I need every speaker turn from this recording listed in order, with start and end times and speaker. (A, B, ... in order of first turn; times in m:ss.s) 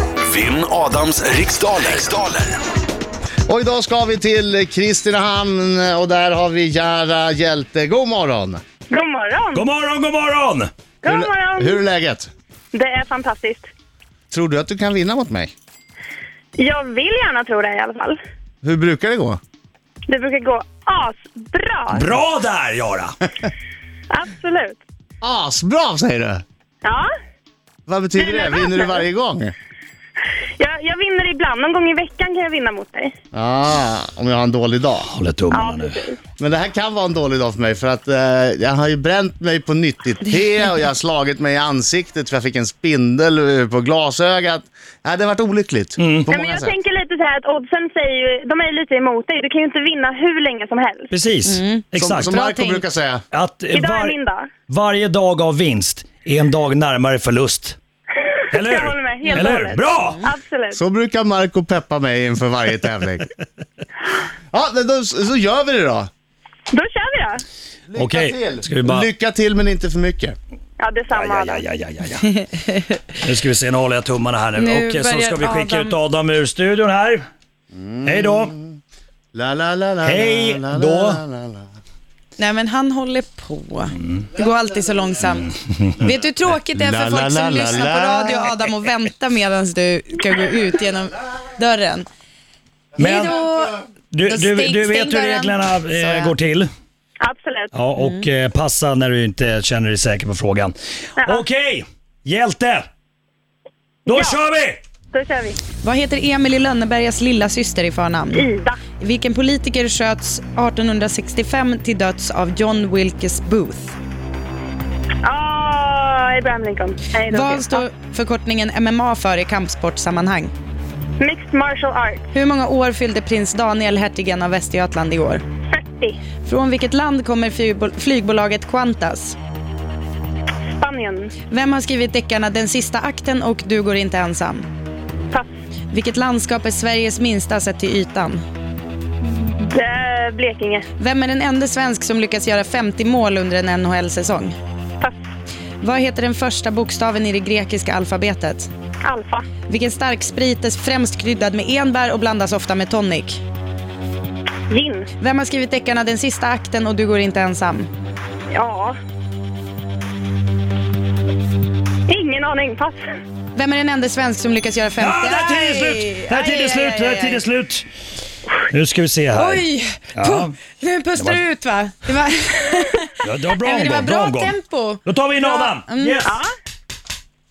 0:00.2-0:02.6 A
0:03.5-0:08.6 B
0:08.9-0:09.7 C
0:09.5-0:10.7 D
0:11.0-0:11.8 C
0:11.0-0:12.3 B
0:12.7-0:13.7 C
0:14.3-0:15.5 B
0:16.6-0:18.2 C
0:18.6-0:19.4 B
0:20.1-0:22.1 C
0:21.9-0:23.1 D
0:24.1-0:24.8 C
0:25.2-0:26.4 B
0:27.9-0:29.5 B
0:28.1-0:29.0 C
0:30.6-0:33.1 C
0:33.3-0:35.1 B
0:35.1-0:36.0 D
0:35.5-0:36.2 C
0:36.4-0:46.8 B
0:46.0-0:46.3 D
0:46.3-0:51.1 C
0:51.1-0:52.4 D
0:51.4-0:52.9 E
0:52.0-0:53.2 B
0:53.3-0:54.2 D
0:53.7-0:54.5 C
0:54.7-0:57.8 D
0:58.5-1:00.8 C
0:58.5-1:00.2 D
0:59.2-1:00.3 E
1:00.7-1:03.3 B
1:04.5-1:06.1 B
1:06.7-1:07.4 C
1:07.9-1:10.3 B
1:08.0-1:09.1 D
1:10.8-1:11.6 C
1:11.1-1:12.4 D
1:13.2-1:17.2 D
1:14.6-1:16.0 E
1:17.7-1:18.8 B
1:18.0-1:18.5 D
1:19.3-1:21.6 B
1:20.0-1:21.2 D
1:22.4-1:32.1 E
1:26.7-1:28.4 B
1:33.0-1:33.4 D
1:33.0-1:36.3 E
1:34.1-1:36.7 D
1:37.2-1:37.7 C
1:37.7-1:42.9 D
1:38.0-1:38.2 E
1:44.1-1:44.4 C
1:44.1-1:44.8 D
1:45.1-1:45.6 C
1:45.8-1:48.5 E
1:48.3-1:48.8 C
1:49.0-1:54.0 E
1:55.2-1:57.8 C
1:57.3-2:00.5 E
2:01.2-2:02.2 C
2:02.3-2:05.4 E
2:05.7-2:06.2 C
2:06.4-2:09.4 E
2:10.8-2:11.3 C
2:11.5-2:14.7 E
2:15.9-2:18.4 E
2:19.6-2:20.8 C
2:21.0-2:24.5 E
2:25.8-2:28.7 E
2:29.0-2:29.4 C
2:29.7-2:33.4 E
2:34.7-2:35.1 C
2:35.2-2:37.9 E
2:38.5-2:39.0 C
2:42.1-2:43.0 C
2:43.5-2:47.4 E
2:45.0-2:47.8 D
2:48.7-2:50.6 D
2:49.3-2:56.2 E
2:51.1-2:51.4 D
2:53.2-2:56.4 D
2:56.2-2:56.5 C